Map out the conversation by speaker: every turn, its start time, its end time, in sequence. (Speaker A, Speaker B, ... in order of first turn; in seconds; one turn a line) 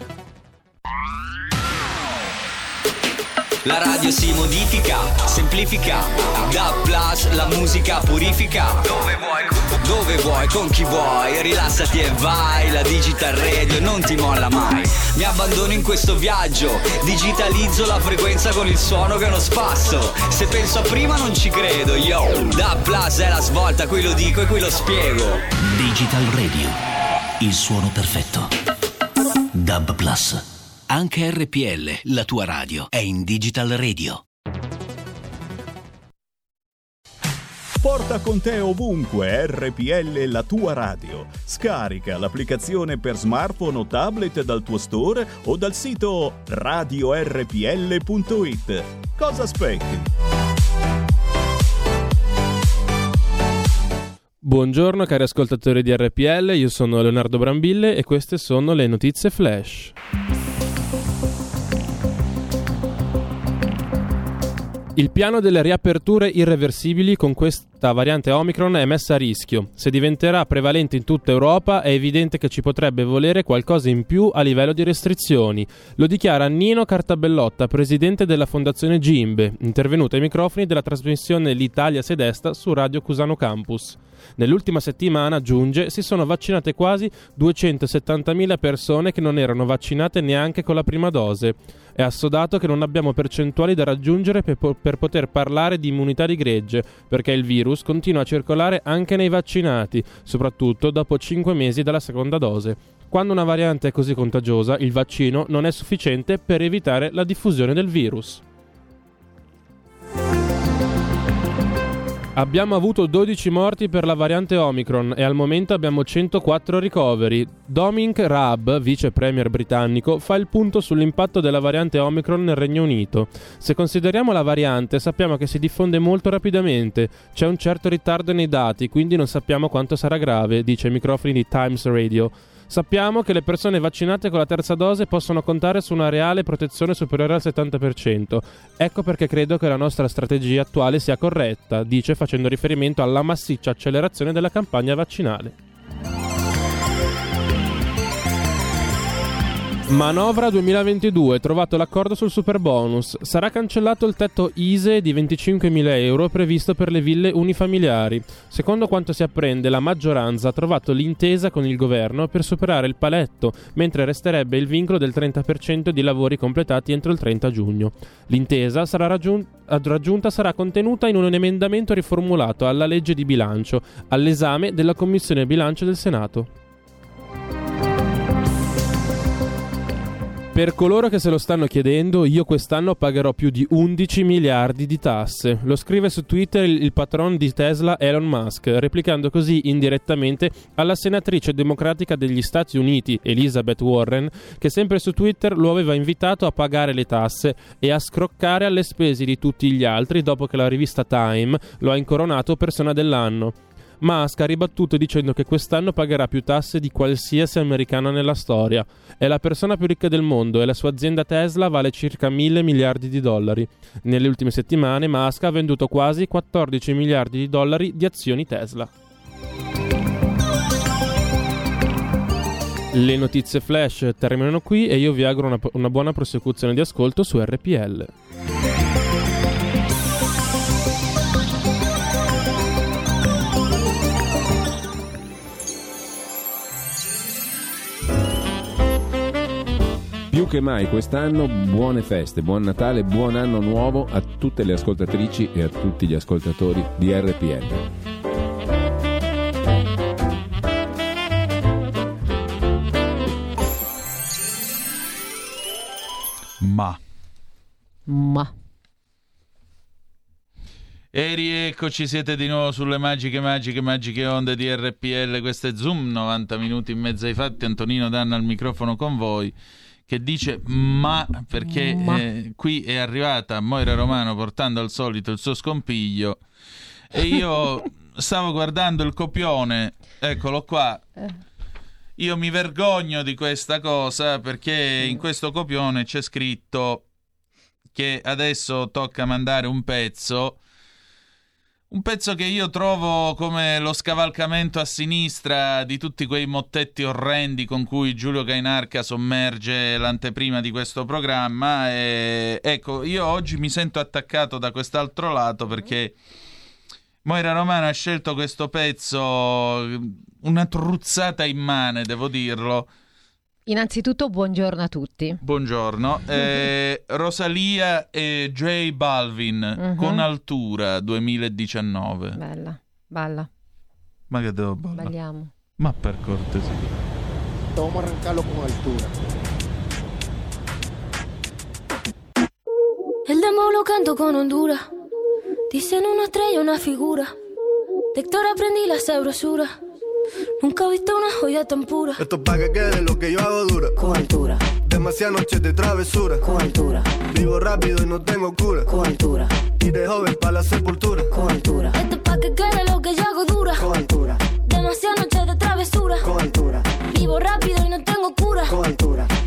Speaker A: 3.6-25.4
Speaker B: 25.6-26.8
Speaker B: 27.4-28.5
Speaker B: 29.6-34.2
Speaker C: 37.8-50.1
Speaker D: 54.4-59.9
Speaker D: 65.0-108.4
Speaker D: 112.3-145.6
Speaker D: 149.9-176.5
Speaker D: 180.5-218.9
Speaker D: 222.9-228.1
Speaker E: 240.3-247.8
Speaker F: 256.6-257.0
Speaker G: 258.1-258.5
Speaker F: 261.1-269.6
Speaker F: 270.1-276.4
Speaker G: 271.6-272.2
Speaker F: 277.1-281.0
Speaker F: 282.2-287.1
Speaker F: 287.9-290.6
Speaker F: 291.9-306.1
Speaker F: 307.2-312.9
Speaker G: 313.7-315.4
Speaker F: 315.4-322.4
Speaker G: 316.4-316.7
Speaker G: 319.8-320.3
Speaker G: 322.4-323.5
Speaker F: 324.3-325.2
Speaker G: 325.0-325.5
Speaker F: 325.8-326.9
Speaker H: 333.3-334.9
Speaker H: 335.7-337.4
Speaker H: 338.1-339.8
Speaker H: 340.6-342.2
Speaker I: 342.2-344.0
Speaker I: 344.8-346.5
Speaker I: 347.3-349.0
Speaker I: 349.8-351.4
Speaker H: 351.9-353.9
Speaker H: 354.6-356.4
Speaker H: 357.1-358.9